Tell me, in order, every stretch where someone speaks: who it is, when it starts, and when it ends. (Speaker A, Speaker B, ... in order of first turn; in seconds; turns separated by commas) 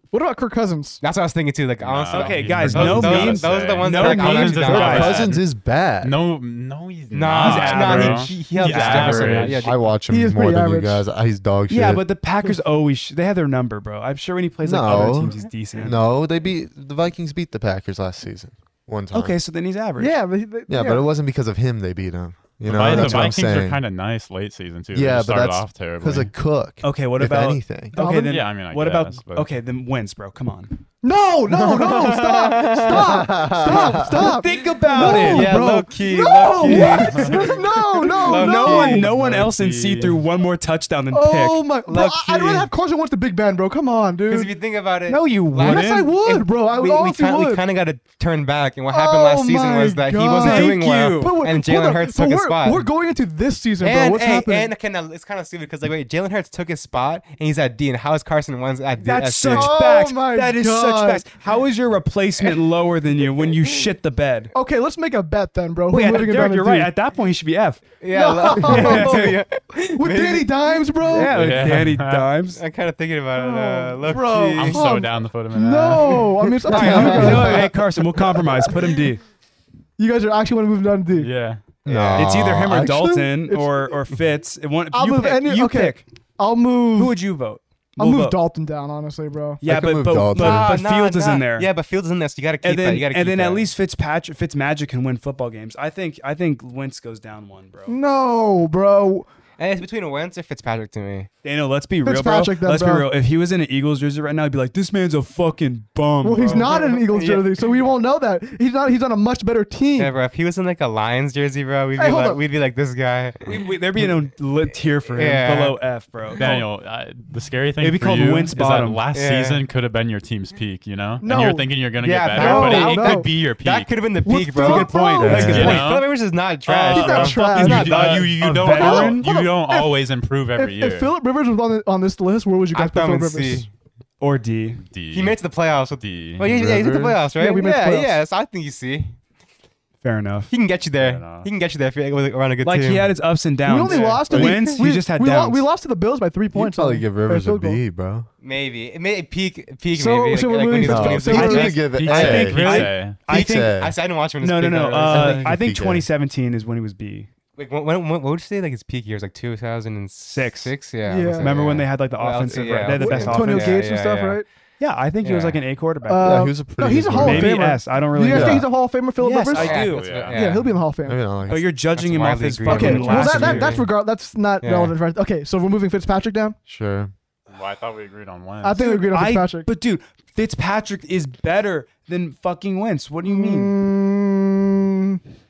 Speaker A: 0.1-1.0, Speaker B: 1.0-5.3, Speaker C: 1.8-5.5, Speaker D: 2.1-5.3, Speaker E: 4.7-6.1, Speaker C: 6.0-9.7, Speaker B: 7.1-9.8, Speaker D: 7.3-9.5, Speaker E: 9.0-12.0, Speaker A: 10.1-11.0, Speaker D: 11.7-16.0, Speaker E: 14.6-19.4, Speaker D: 19.1-20.1, Speaker A: 20.0-21.1, Speaker E: 20.7-23.8, Speaker C: 22.6-26.3, Speaker D: 22.9-23.2, Speaker E: 24.9-27.9, Speaker D: 26.8-30.8, Speaker A: 27.9-28.4, Speaker C: 28.2-29.5, Speaker A: 31.0-39.1, Speaker B: 31.6-33.7, Speaker E: 32.9-34.2, Speaker D: 33.9-35.7, Speaker B: 34.7-39.1, Speaker D: 36.5-37.0, Speaker C: 36.8-37.5, Speaker D: 38.2-41.7, Speaker C: 38.8-40.2, Speaker A: 41.1-44.5, Speaker B: 41.9-42.7, Speaker B: 44.2-52.9, Speaker D: 45.1-46.1, Speaker A: 45.6-47.6, Speaker A: 48.9-54.7, Speaker D: 50.3-51.4, Speaker B: 53.8-59.8, Speaker D: 59.0-64.5, Speaker A: 59.5-61.2, Speaker B: 63.4-63.9, Speaker A: 64.5-66.9, Speaker D: 65.9-67.8, Speaker B: 68.0-71.2, Speaker A: 68.1-71.3, Speaker D: 68.5-69.4, Speaker D: 71.1-72.6, Speaker C: 71.3-72.3, Speaker B: 72.5-74.9, Speaker A: 73.3-78.7, Speaker C: 74.5-76.3, Speaker B: 76.7-77.7, Speaker D: 76.7-79.2, Speaker E: 76.8-77.3, Speaker A: 80.0-81.3, Speaker C: 81.2-81.6, Speaker B: 81.8-82.7, Speaker E: 81.8-83.6, Speaker D: 82.1-86.0, Speaker A: 84.9-87.2, Speaker D: 86.9-88.4, Speaker A: 88.0-89.6, Speaker D: 89.6-91.7, Speaker E: 89.6-90.8, Speaker B: 90.3-93.7, Speaker D: 92.6-98.0, Speaker A: 97.9-99.2, Speaker B: 99.6-101.3, Speaker D: 101.4-107.3, Speaker A: 102.0-103.1, Speaker A: 106.2-110.1, Speaker B: 107.1-107.4, Speaker B: 110.0-113.7, Speaker A: 112.0-112.4, Speaker D: 113.5-116.6, Speaker B: 115.1-115.8, Speaker C: 116.4-123.9, Speaker D: 117.8-119.0, Speaker B: 119.1-119.6, Speaker A: 121.2-121.7, Speaker B: 122.0-128.7, Speaker A: 122.3-123.3, Speaker A: 124.2-125.8, Speaker D: 124.6-125.9, Speaker C: 125.2-126.1, Speaker C: 126.7-131.1, Speaker A: 126.9-130.0, Speaker D: 126.9-129.3, Speaker A: 130.5-133.7, Speaker B: 132.7-133.7, Speaker D: 134.2-134.8, Speaker C: 134.8-135.4, Speaker B: 135.1-139.1, Speaker C: 136.0-136.5, Speaker E: 136.4-137.2, Speaker A: 137.3-138.2, Speaker D: 140.0-140.5, Speaker B: 140.5-143.1, Speaker C: 141.0-141.5, Speaker D: 142.6-145.7, Speaker A: 143.6-147.8, Speaker B: 143.9-144.5, Speaker E: 144.3-144.6, Speaker E: 146.5-148.3, Speaker B: 148.4-155.6, Speaker A: 149.9-151.8, Speaker E: 150.8-152.6, Speaker C: 151.8-153.2, Speaker D: 152.1-153.8, Speaker E: 153.3-153.9, Speaker D: 154.4-157.3, Speaker E: 154.9-156.1, Speaker B: 157.6-164.4, Speaker D: 160.3-160.7, Speaker A: 161.1-161.6, Speaker D: 161.4-163.8, Speaker A: 162.9-164.4, Speaker D: 164.8-166.5, Speaker B: 165.2-165.6, Speaker A: 166.1-171.2, Speaker E: 166.2-167.6, Speaker D: 167.1-170.3, Speaker E: 168.2-168.6, Speaker B: 169.5-170.8, Speaker C: 169.6-170.5, Speaker E: 171.1-171.7, Speaker D: 171.5-173.9, Speaker B: 171.9-173.8, Speaker A: 172.7-176.6, Speaker B: 174.6-174.9, Speaker E: 176.7-177.1, Speaker C: 177.5-178.9, Speaker A: 178.6-179.7, Speaker D: 178.8-183.8, Speaker A: 183.2-185.2